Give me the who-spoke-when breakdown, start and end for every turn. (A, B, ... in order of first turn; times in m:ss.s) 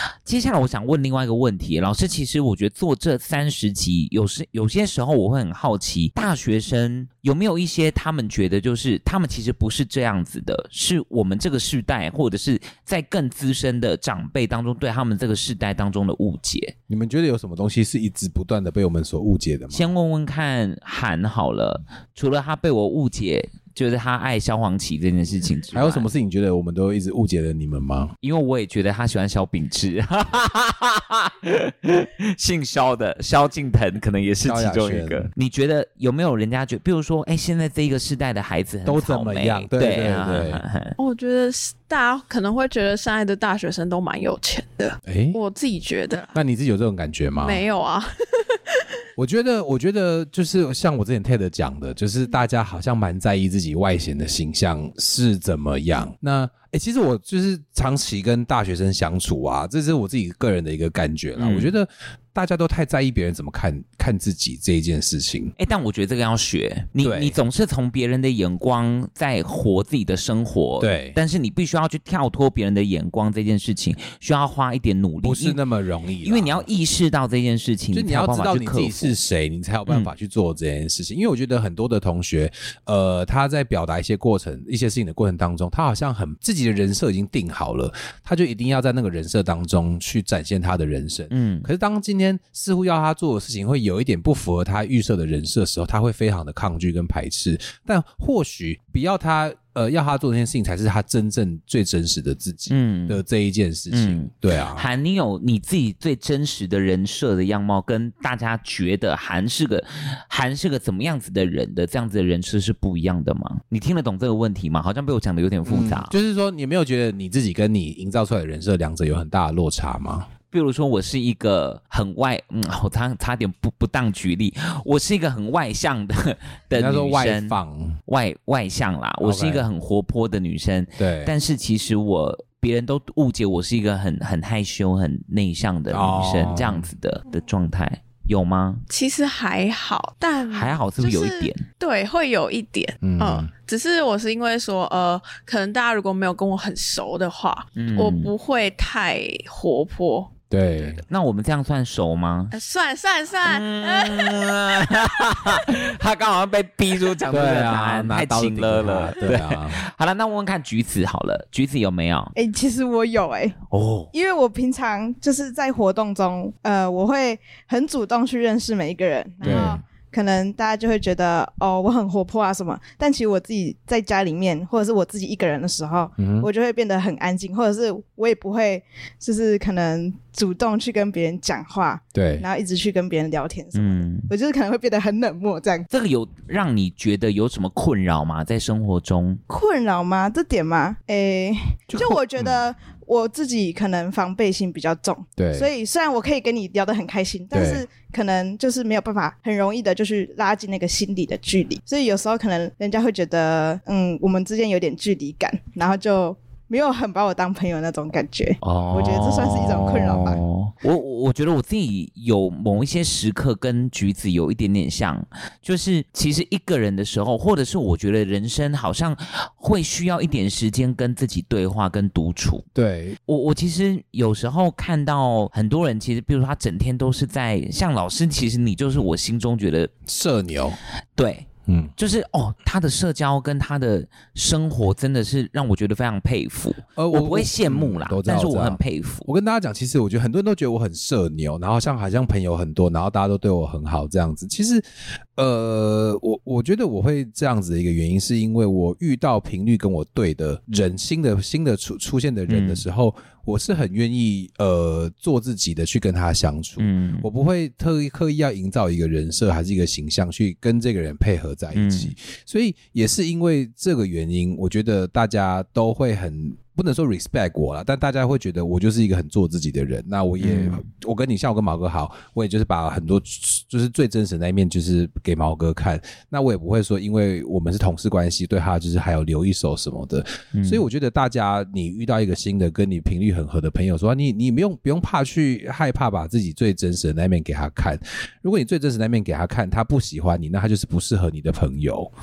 0:00.2-0:16.7 A
0:16.9-0:19.9 B
0:19.7-0:26.1 A
0:25.7-0:28.1 B
0:28.2-0:40.9 A
0:34.4-0:35.3 B
0:38.8-0:40.6 B
0:41.0-0:46.4 C
0:45.0-0:45.4 B
0:46.3-0:47.6 B
0:47.4-0:48.6 C
0:49.2-1:05.6 B
1:01.4-1:01.7 A
1:05.6-1:15.6 A
1:07.0-1:07.4 B
1:10.8-1:11.2 B
1:15.2-1:16.7 B
1:16.2-1:19.2 A
1:17.9-1:44.9 B
1:31.3-1:31.7 A
1:42.7-1:43.2 A
1:43.9-1:56.1 A
1:55.6-2:00.3 B
2:00.5-2:18.8 A
2:06.7-2:08.0 B
2:09.2-2:09.7 B
2:11.0-2:11.3 B
2:15.9-2:16.9 B
2:18.9-2:31.0 C
2:20.5-2:21.6 A
2:23.0-2:23.5 B
2:27.8-2:28.3 A
2:30.5-2:31.0 B
2:31.1-2:32.6 A
2:32.5-2:34.4 C
2:33.4-2:42.3 A
2:37.3-2:39.8 B
2:42.4-2:43.6 D
2:43.7-2:44.1 A
2:44.1-3:05.9 D
2:49.4-2:49.8 A
2:49.4-2:49.8 B
2:56.2-2:56.5 B
3:02.1-3:02.5 B
3:03.7-3:04.3 A
3:05.9-3:09.4 A
3:09.5-3:30.4 D
3:11.9-3:12.6 B
3:15.4-3:15.7 B
3:17.5-3:17.8 B
3:28.6-3:42.7 A
3:42.8-3:43.2 B
3:43.3-3:49.9 A
3:50.1-3:50.8 B
3:51.2-3:59.3 A
3:51.7-3:51.9 B
3:57.0-4:04.8 B
4:05.4-4:52.1 B
4:12.5-4:12.8 A
4:16.8-4:17.3 A
4:21.7-4:22.1 A
4:30.4-4:30.8 A
4:40.6-4:40.8 A